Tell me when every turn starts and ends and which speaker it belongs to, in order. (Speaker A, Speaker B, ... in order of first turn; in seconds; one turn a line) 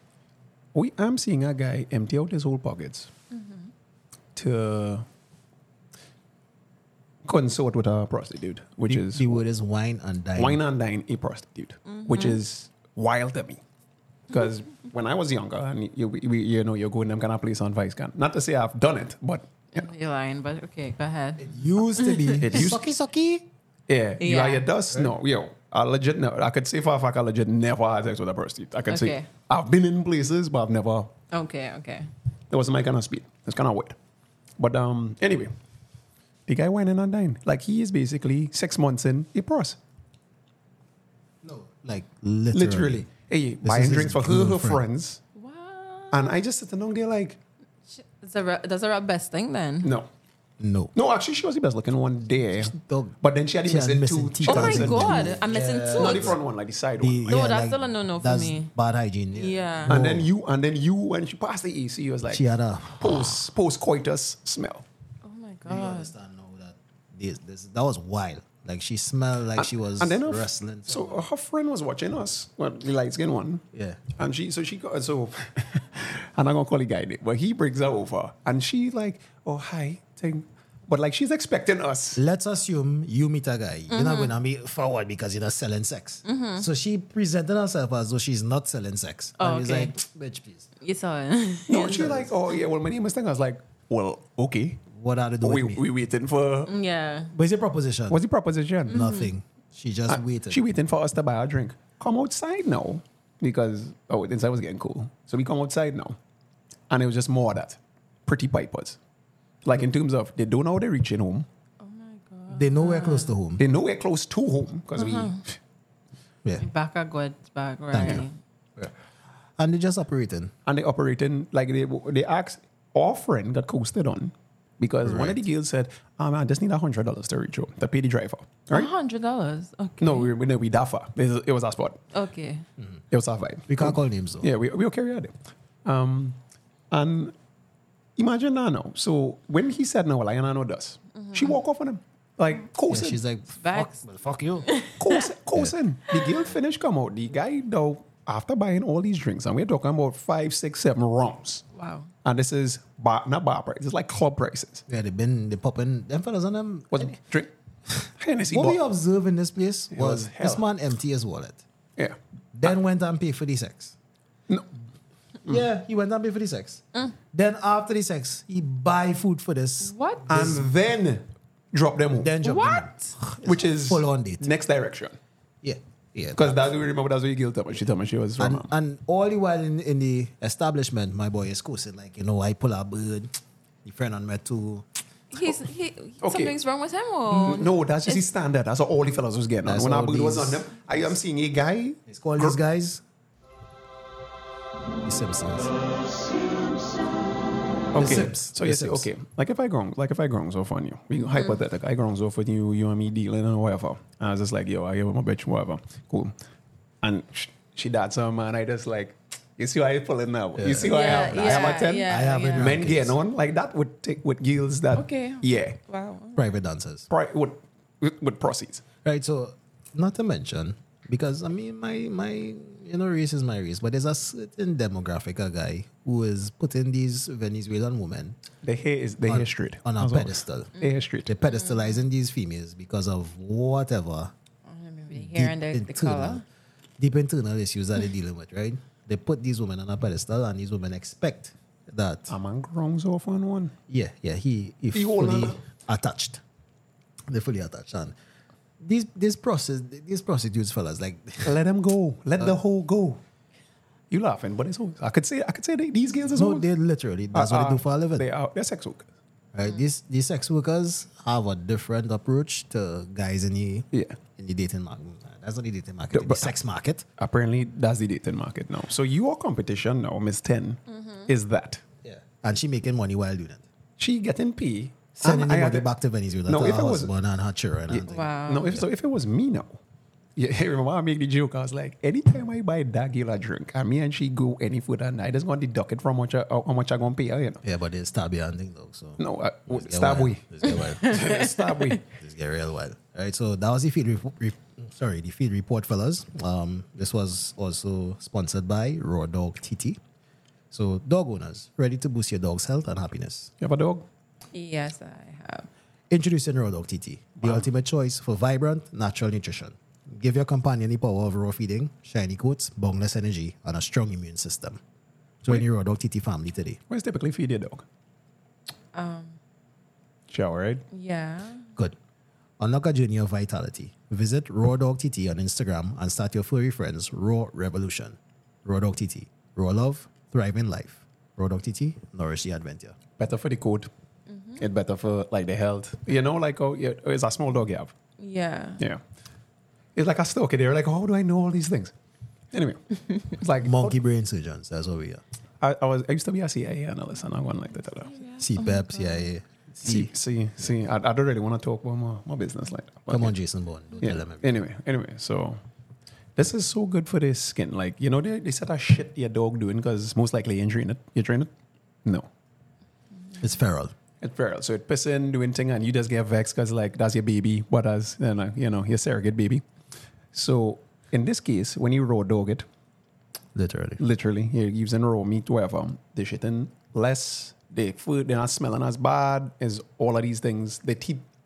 Speaker A: 0.7-3.1
Speaker B: 3.3-3.7
Speaker A: 4.3-5.0
Speaker A: 7.2-9.4
Speaker C: 8.9-10.6
Speaker A: 10.4-13.6
Speaker B: 11.8-12.4
Speaker A: 14.3-19.9
Speaker B: 19.7-22.5
Speaker C: 21.4-23.5
Speaker A: 22.3-22.9
Speaker A: 23.9-31.1
Speaker B: 24.2-24.6
Speaker B: 28.9-29.3
Speaker B: 31.3-32.1
Speaker A: 32.5-34.0
Speaker A: 34.6-35.5
Speaker A: 36.5-39.8
Speaker C: 41.4-43.1
Speaker A: 42.5-45.2
Speaker C: 43.6-44.8
Speaker B: 45.3-46.3
Speaker A: 46.1-47.4
Speaker B: 47.9-49.9
Speaker A: 49.8-50.1
Speaker C: 50.6-50.9
Speaker A: 50.9-57.4
Speaker C: 52.6-56.4
Speaker B: 54.5-56.4
Speaker C: 57.0-60.3
Speaker B: 57.3-58.7
Speaker B: 59.3-60.0
Speaker A: 59.9-62.4
Speaker C: 62.3-63.4
Speaker A: 63.0-64.8
Speaker B: 65.2-66.1
Speaker C: 65.7-71.2
Speaker A: 69.5-82.2
Speaker C: 73.7-74.0
Speaker C: 82.2-90.7
Speaker B: 83.9-84.3
Speaker B: 86.2-86.7
Speaker B: 89.4-89.9
Speaker B: 90.8-92.1
Speaker A: 91.7-94.9
Speaker C: 91.8-92.3
Speaker C: 94.9-95.8
Speaker A: 95.4-96.7
Speaker B: 96.7-97.3
Speaker C: 97.3-98.2
Speaker A: 98.1-99.0
Speaker C: 98.9-100.6
Speaker B: 98.9-99.3
Speaker A: 100.1-106.2
Speaker A: 106.9-109.0
Speaker A: 109.6-111.5
Speaker B: 111.8-113.3
Speaker C: 112.5-113.6
Speaker A: 113.6-115.5
Speaker B: 115.0-115.4
Speaker B: 116.6-118.3
Speaker C: 117.9-118.2
Speaker C: 119.6-120.5
Speaker A: 120.7-128.9
Speaker C: 125.0-125.4
Speaker B: 128.7-130.3
Speaker A: 130.0-132.0
Speaker B: 132.1-132.6
Speaker A: 133.1-136.4
Speaker C: 133.7-134.5
Speaker A: 136.9-137.3
Speaker A: 138.2-143.2
Speaker B: 141.1-141.6
Speaker C: 142.9-144.7
Speaker B: 143.6-144.0
Speaker B: 144.7-145.2
Speaker A: 145.0-151.6
Speaker B: 151.7-152.1
Speaker A: 152.2-154.8
Speaker C: 154.9-157.1
Speaker A: 156.9-157.5
Speaker C: 157.9-161.6
Speaker A: 158.2-158.8
Speaker A: 159.9-160.6
Speaker A: 162.0-162.7
Speaker C: 162.5-163.9
Speaker C: 165.4-170.7
Speaker B: 169.8-170.3
Speaker A: 170.3-172.3
Speaker C: 172.2-174.5
Speaker B: 172.4-173.1
Speaker A: 173.4-175.2
Speaker C: 175.6-176.7
Speaker A: 176.3-178.7
Speaker C: 178.4-183.3
Speaker C: 183.8-184.8
Speaker B: 185.3-188.2
Speaker A: 186.2-186.5
Speaker A: 187.3-192.6
Speaker C: 189.6-190.7
Speaker C: 192.1-193.0
Speaker C: 195.0-195.7
Speaker A: 197.9-206.3
Speaker C: 197.9-199.1
Speaker A: 207.0-215.8
Speaker C: 210.6-213.2
Speaker B: 210.8-212.7
Speaker B: 214.9-216.4
Speaker C: 216.3-217.1
Speaker A: 217.1-218.8
Speaker C: 219.0-228.4
Speaker A: 228.6-231.3
Speaker C: 229.2-234.3
Speaker B: 231.5-231.8
Speaker B: 234.7-236.4
Speaker C: 235.1-236.4
Speaker C: 237.0-242.3
Speaker A: 242.3-243.7
Speaker C: 243.9-246.4
Speaker A: 244.9-245.6
Speaker C: 247.3-248.1
Speaker C: 248.8-251.6
Speaker A: 251.4-253.2
Speaker A: 254.1-256.7
Speaker C: 256.3-258.2
Speaker A: 257.3-259.1
Speaker C: 259.5-267.0
Speaker A: 263.9-264.2
Speaker A: 266.1-266.5
Speaker A: 267.2-271.8
Speaker B: 270.9-271.3
Speaker C: 272.0-273.6
Speaker A: 274.0-275.9
Speaker C: 275.1-278.8
Speaker A: 276.5-277.1
Speaker A: 277.9-279.8
Speaker B: 278.1-278.8
Speaker A: 280.4-287.6
Speaker C: 287.6-291.3
Speaker A: 289.2-292.0
Speaker B: 290.8-291.9
Speaker C: 292.1-300.0
Speaker C: 300.7-303.5
Speaker A: 303.6-304.1
Speaker B: 304.5-305.7
Speaker C: 306.1-314.8
Speaker A: 307.4-307.6
Speaker C: 315.4-316.8
Speaker A: 316.9-317.8
Speaker B: 318.9-319.4
Speaker A: 320.3-320.8
Speaker B: 320.9-321.7
Speaker C: 322.6-333.0
Speaker A: 333.2-333.9
Speaker B: 334.3-334.6
Speaker A: 334.6-337.9
Speaker B: 338.2-338.8
Speaker A: 339.9-341.9
Speaker A: 342.5-343.9
Speaker C: 343.6-345.2
Speaker A: 345.6-348.1
Speaker B: 348.1-349.2
Speaker C: 348.4-350.1
Speaker A: 349.8-353.3
Speaker C: 353.1-354.6
Speaker A: 354.0-355.6
Speaker A: 356.4-361.5
Speaker C: 363.4-363.9
Speaker A: 364.2-369.6
Speaker A: 370.3-372.6
Speaker C: 373.5-374.0
Speaker A: 374.0-381.2